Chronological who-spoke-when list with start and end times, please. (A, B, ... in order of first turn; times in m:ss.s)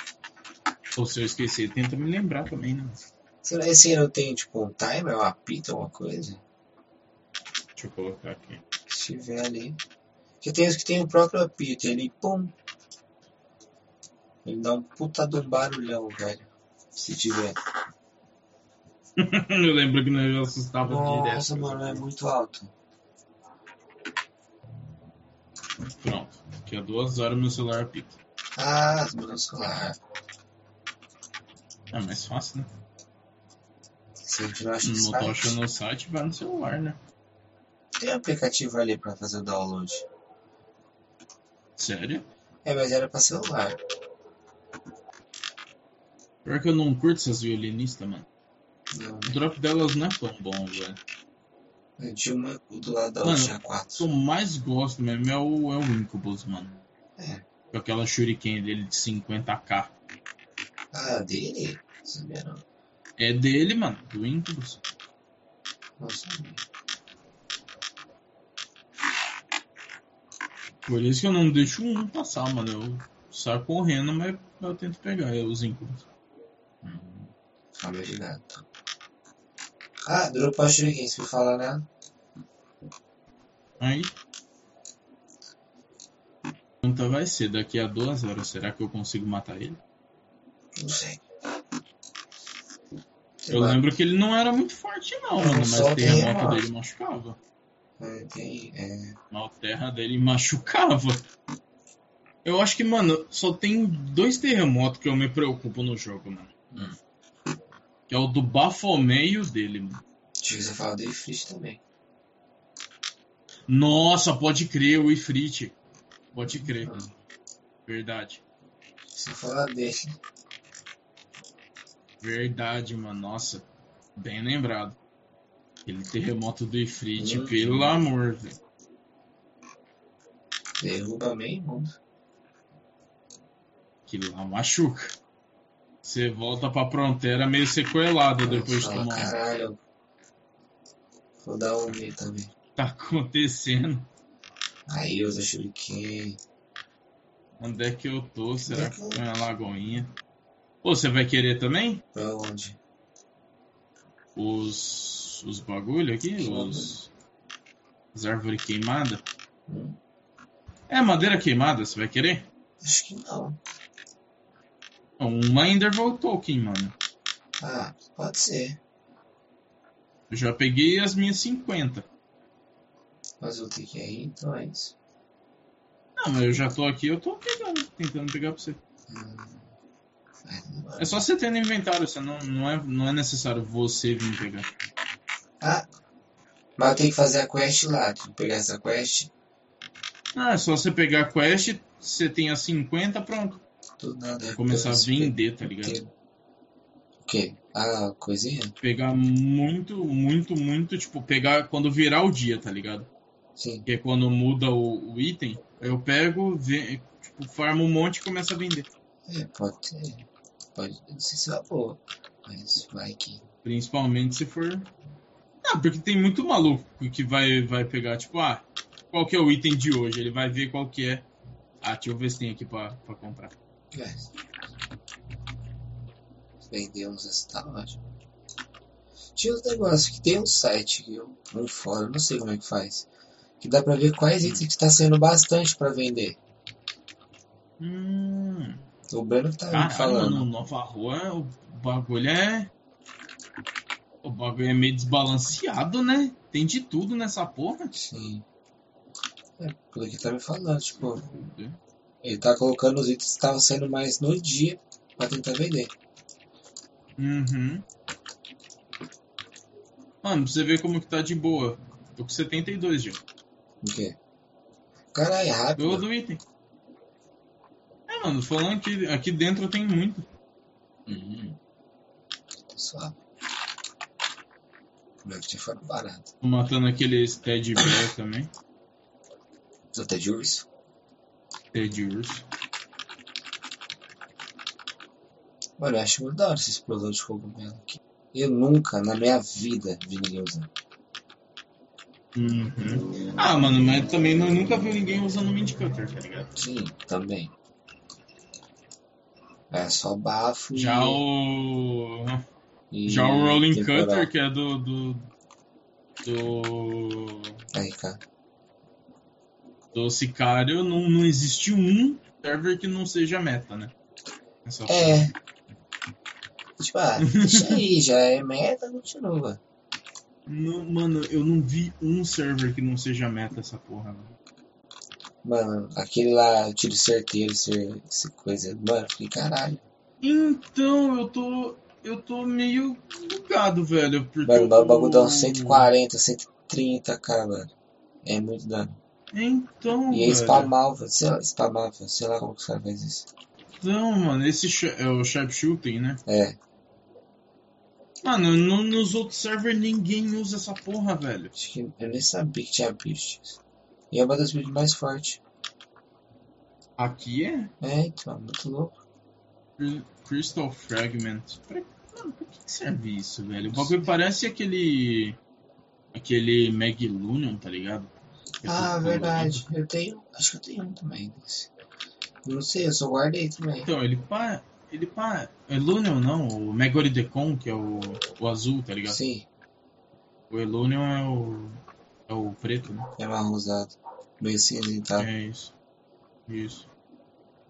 0:01.0-0:03.0 A
0:03.4-0:06.4 B
0:07.8-0:08.6 A
0:08.9-0:09.8 B
0:10.4-0:12.5 B
0:14.4-0:17.6 B
0:19.2-0:22.0 A
0:20.8-0:22.7 B
0:26.0-0:28.2 A
0:28.6-0:30.0 B
0:31.9-0:32.7 A
0:34.2-0:35.6 B
0:34.8-0:37.0 A
0:38.0-0:40.0 B
0:41.8-0:42.2 A
0:42.6-0:43.8 B
0:46.4-0:48.2 A
0:48.9-0:49.4 B
0:49.3-0:51.0 A
0:52.0-0:54.1 B
0:53.2-0:56.8 A
0:57.7-0:59.9 A
1:00.9-1:02.6 B
1:03.2-1:04.8 A
1:06.0-1:06.6 B
1:10.8-1:16.1 A
1:16.8-1:18.6 B
1:20.0-1:21.8 B
1:23.8-1:24.1 A
1:26.8-1:29.8 A
1:30.8-1:31.2 B
1:33.4-1:33.8 B
1:33.5-1:37.4 A
1:35.4-1:36.6 B
1:38.0-1:39.2 B
1:39.3-1:41.2 A
1:42.4-1:46.5 A
1:48.1-1:50.0 A
1:50.4-1:51.8 B
1:53.7-1:55.7 A
1:56.3-1:57.0 A
1:56.5-1:57.1 B
1:57.8-1:58.4 A
1:59.1-2:00.2 B
2:02.2-2:03.6 A
2:04.2-2:05.0 A
2:05.8-2:08.6 A
2:07.2-2:07.9 B
2:10.8-2:11.9 B
2:14.1-2:15.2 A
2:16.0-2:19.4 A
2:18.4-2:19.8 B
2:21.4-2:22.5 B
2:22.8-2:24.1 A
2:24.9-2:26.4 B
2:27.6-2:30.1 A
2:28.6-2:29.4 B
2:30.8-2:32.0 A
2:32.1-2:32.8 B
2:34.3-2:37.1 A
2:36.3-2:37.0 B
2:38.1-2:39.2 A
2:39.7-2:40.0 B
2:40.9-2:42.4 A
2:42.8-2:43.6 B
2:45.2-2:46.9 A
2:47.6-2:48.8 B
2:50.3-2:52.0 A
2:53.4-2:54.9 B
2:56.2-2:58.8 A
2:59.1-2:59.7 B
3:00.4-3:01.2 B
3:01.0-3:04.7 A
3:05.6-3:05.8 B
3:06.8-3:09.3 B
3:10.3-3:13.6 A
3:14.0-3:16.1 B
3:14.5-3:16.0 A
3:17.2-3:18.7 B
3:18.8-3:23.1 A
3:23.6-3:23.9 B
3:23.8-3:28.9 A
3:29.3-3:33.4 B
3:33.6-3:34.9 A
3:35.6-3:41.2 A
3:41.8-3:43.6 A
3:43.9-3:44.3 B
3:46.7-3:48.0 B
3:49.4-3:53.1 B
3:53.6-3:56.4 B
3:57.8-3:58.8 A
3:59.1-4:00.5 B
3:59.7-4:02.7 A
4:04.2-4:07.9 A
4:07.9-4:08.4 B
4:09.6-4:11.3 B
4:10.9-4:11.8 A
4:12.2-4:15.9 B
4:17.2-4:17.8 A
4:20.2-4:23.2 A
4:23.8-4:24.2 B
4:25.1-4:26.0 B
4:25.8-4:26.4 A
4:28.1-4:30.3 A
4:31.0-4:31.6 B
4:32.7-4:33.2 B
4:35.2-4:36.3 B
4:36.4-4:38.5 A
4:39.9-4:40.7 B
4:41.7-4:42.4 A
4:45.8-4:50.7 B
4:52.3-4:56.5 A
4:56.5-4:57.5 B
4:59.7-5:01.2 B
5:00.7-5:02.4 A
5:02.9-5:04.3 B
5:03.0-5:05.2 A
5:06.2-5:07.6 A
5:07.7-5:08.2 B
5:09.9-5:13.9 A
5:14.6-5:15.2 A
5:14.9-5:15.3 B
5:16.8-5:19.6 B
5:17.2-5:17.8 A
5:20.5-5:24.4 A
5:25.4-5:29.8 B
5:30.2-5:35.9 A
5:34.4-5:37.7 B
5:38.2-5:39.0 B
5:39.3-5:40.7 A
5:40.1-5:43.3 B
5:43.8-5:46.2 A
5:46.2-5:46.6 B
5:48.2-5:51.5 A
5:51.5-5:53.6 B
5:54.1-5:55.4 B
5:57.0-5:57.7 A
5:57.8-5:59.0 B
5:59.8-6:05.4 A
6:03.7-6:04.1 B
6:06.1-6:09.7 A
6:08.6-6:11.7 B
6:12.4-6:13.9 B
6:13.8-6:19.2 A
6:19.0-6:19.5 B
6:20.5-6:23.1 A
6:23.2-6:25.3 B
6:25.2-6:25.7 A
6:26.5-6:26.9 A